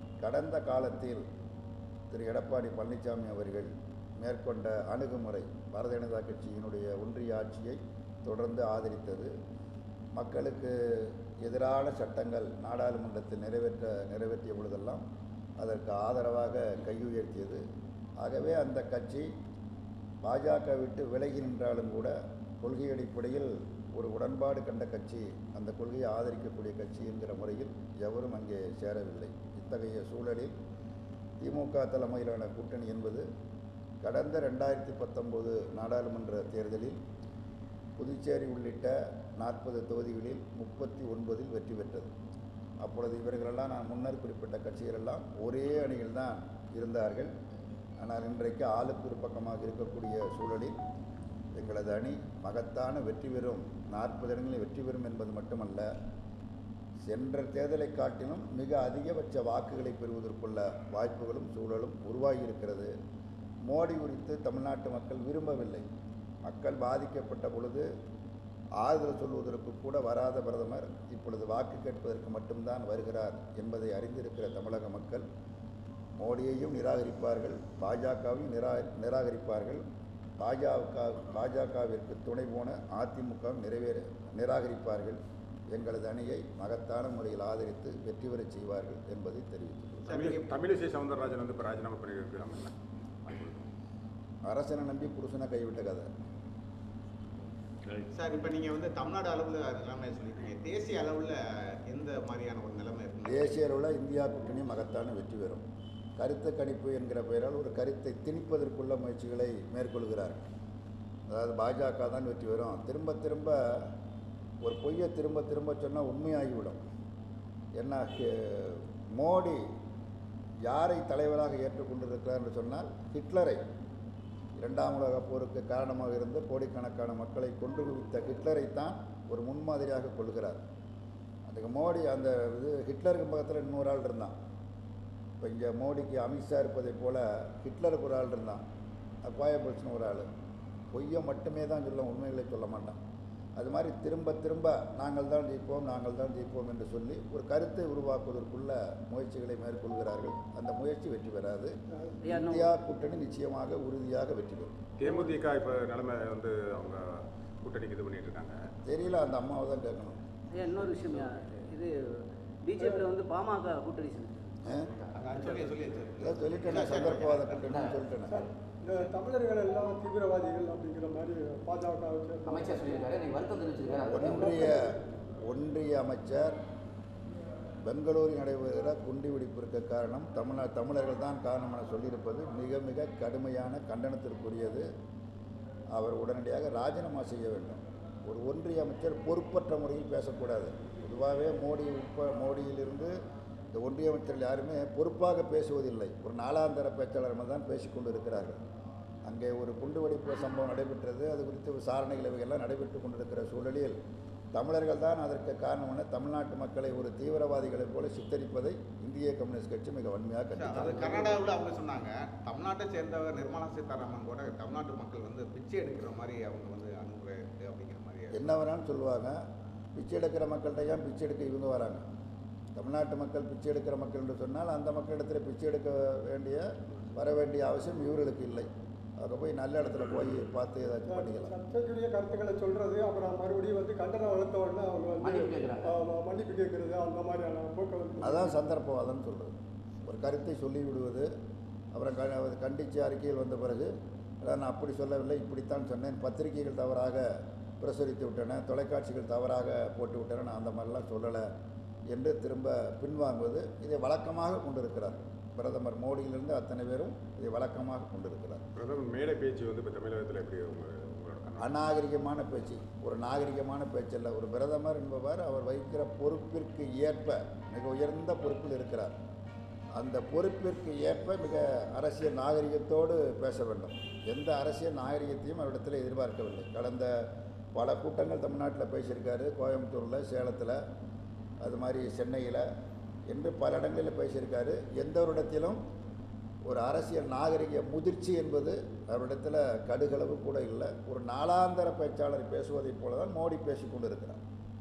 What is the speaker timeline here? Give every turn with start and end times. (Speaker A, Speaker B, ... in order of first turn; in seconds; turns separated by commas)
Speaker A: 0.2-1.2, Speaker A: 2.1-9.3, Speaker A: 10.1-15.0, Speaker A: 15.6-17.6, Speaker A: 18.2-19.3, Speaker A: 20.2-30.5, Speaker A: 31.4-33.2, Speaker A: 34.0-37.0, Speaker A: 38.0-42.1, Speaker A: 42.8-47.3, Speaker A: 48.0-50.8, Speaker A: 51.5-55.9, Speaker A: 57.0-62.9, Speaker A: 63.6-65.9, Speaker A: 66.4-67.9, Speaker A: 68.8-75.2, Speaker A: 76.2-79.8, Speaker A: 80.4-85.2, Speaker A: 85.7-90.1, Speaker B: 90.0-90.5, Speaker C: 90.1-93.7, Speaker A: 94.5-96.1, Speaker B: 98.1-101.4, Speaker B: 101.9-103.6, Speaker A: 103.2-105.6, Speaker A: 106.2-110.5, Speaker A: 111.3-113.9, Speaker A: 114.6-116.8, Speaker A: 117.8-119.6, Speaker A: 120.7-123.6, Speaker A: 124.6-130.6, Speaker A: 131.5-134.3, Speaker A: 135.4-138.6, Speaker A: 139.2-140.3, Speaker A: 140.9-143.0, Speaker A: 143.6-151.7, Speaker D: 152.2-152.7, Speaker A: 152.3-154.8, Speaker C: 155.0-158.6, Speaker A: 158.8-160.2, Speaker D: 160.5-161.9, Speaker D: 162.6-164.6, Speaker E: 162.8-163.0, Speaker A: 164.6-164.9, Speaker F: 164.8-165.4, Speaker B: 165.2-167.7, Speaker D: 165.4-165.7, Speaker A: 166.2-168.4, Speaker F: 167.6-168.5, Speaker E: 168.3-173.1, Speaker F: 172.4-174.7, Speaker A: 174.1-176.6, Speaker E: 174.4-174.8, Speaker A: 177.8-184.9, Speaker A: 185.9-193.2, Speaker A: 193.7-198.6, Speaker A: 199.2-204.0, Speaker A: 204.5-211.3, Speaker B: 210.6-218.4, Speaker A: 218.3-219.4, Speaker A: 219.9-222.0, Speaker A: 222.8-228.7, Speaker A: 229.2-231.5, Speaker E: 231.1-238.6, Speaker F: 235.2-236.0, Speaker A: 238.2-239.5, Speaker A: 240.0-241.3, Speaker A: 241.9-251.5, Speaker A: 252.1-258.6, Speaker C: 258.8-261.7, Speaker A: 261.6-269.1, Speaker A: 269.9-280.8, Speaker A: 281.6-282.7, Speaker A: 283.3-285.8, Speaker A: 286.7-294.4